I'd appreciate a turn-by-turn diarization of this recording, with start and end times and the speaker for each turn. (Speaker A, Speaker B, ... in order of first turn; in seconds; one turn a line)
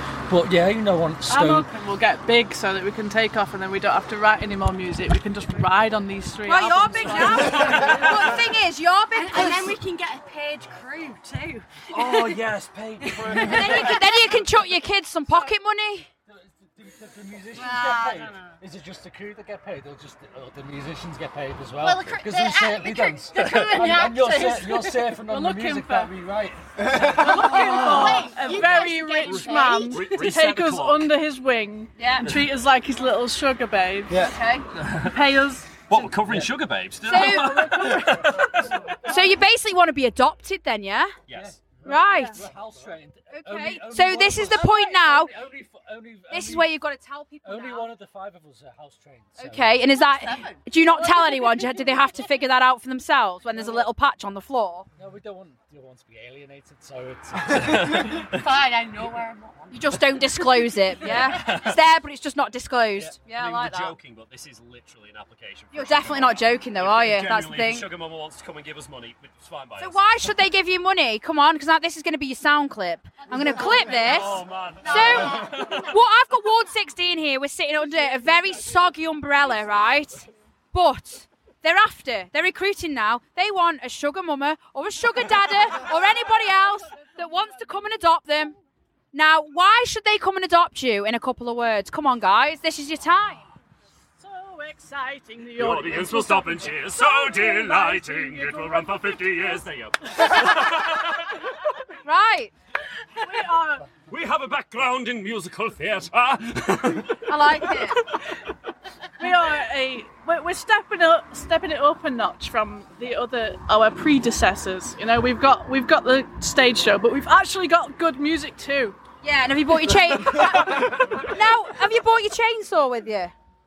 Speaker A: 0.3-1.7
Speaker B: 1.3-7.9
Speaker C: 6.5-9.8
Speaker D: 7.3-8.4
Speaker E: 9.2-12.0
Speaker D: 11.9-14.1
Speaker C: 13.4-16.1
Speaker E: 13.8-14.1
Speaker A: 16.3-27.9
Speaker E: 17.5-18.6
Speaker E: 21.8-25.1
Speaker D: 23.3-23.9
Speaker B: 25.2-26.1
Speaker E: 26.9-30.0
Speaker B: 27.2-34.3
Speaker D: 27.6-28.5
Speaker D: 29.2-31.1
Speaker C: 32.0-32.3
Speaker C: 34.1-34.7
Speaker D: 34.8-35.1
Speaker B: 34.9-36.0
Speaker D: 35.9-38.8
Speaker C: 37.0-38.3
Speaker B: 37.2-38.4
Speaker C: 39.0-41.1
Speaker D: 41.3-41.5
Speaker A: 41.3-46.7
Speaker C: 41.8-42.4
Speaker B: 42.1-42.5
Speaker C: 43.3-45.3
Speaker C: 46.3-47.9
Speaker A: 47.4-49.8
Speaker C: 49.4-54.9
Speaker E: 50.2-50.6
Speaker A: 55.0-58.3
Speaker D: 57.6-58.4
Speaker E: 58.3-59.7
Speaker C: 59.7-64.0
Speaker D: 61.0-61.8
Speaker D: 63.2-70.0
Speaker C: 65.7-67.9
Speaker C: 69.8-88.6
Speaker D: 73.5-76.0
Speaker E: 75.0-75.7
Speaker B: 86.9-87.8
Speaker C: 89.1-93.5
Speaker B: 94.2-99.7
Speaker D: 95.6-101.4
Speaker C: 102.0-102.5
Speaker B: 103.2-103.9
Speaker D: 104.0-108.2
Speaker C: 107.3-108.0
Speaker B: 109.2-119.0
Speaker C: 119.2-123.3